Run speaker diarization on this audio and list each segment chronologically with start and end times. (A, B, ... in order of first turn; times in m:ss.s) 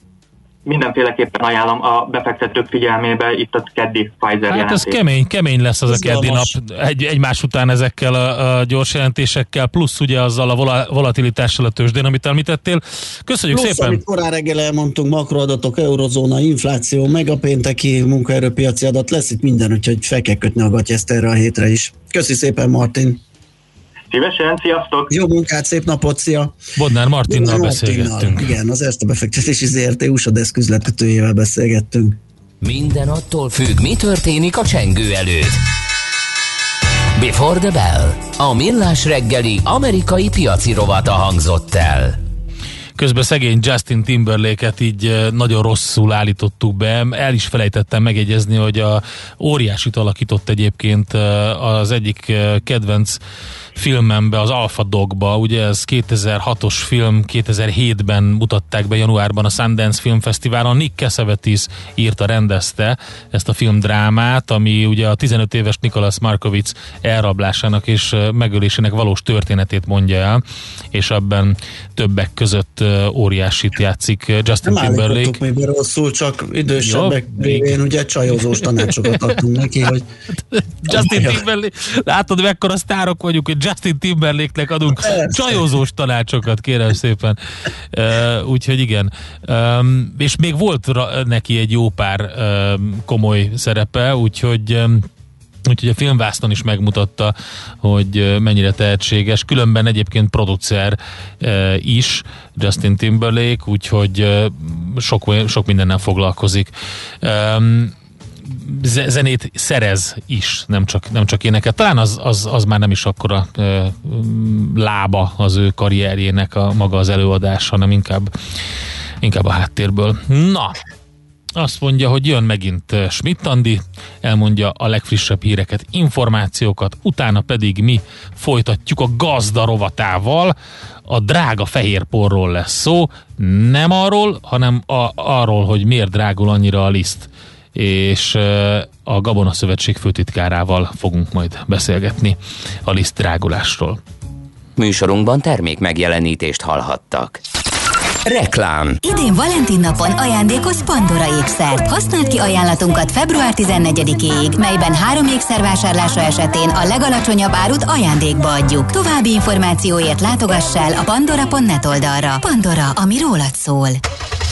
0:00.6-0:05.0 A
0:04.5-0:14.0 B
0:05.9-0:06.5 C
0:13.5-0:23.2 C
0:24.1-0:25.1 A
0:25.1-0:26.6 C
0:26.8-0:28.5 B
0:27.3-0:32.2 C
0:32.6-0:35.6 D
0:37.2-0:42.2 D
0:43.0-0:53.2 B
0:53.8-1:10.4 B
1:10.9-1:15.4 B
1:14.6-1:20.1 C
1:16.8-1:17.8 B
1:18.3-1:18.7 B
1:20.5-1:27.4 B
1:20.9-1:21.4 C
1:24.9-1:25.7 C
1:27.9-1:35.1 B
1:35.7-1:46.7 B
1:47.2-1:47.9 B
1:48.5-1:58.3 B
1:59.2-2:00.8 B
2:01.6-2:10.5 B
2:11.1-2:24.0 B
2:24.8-2:27.4 D
2:28.2-2:29.0 D
2:29.0-2:44.0 E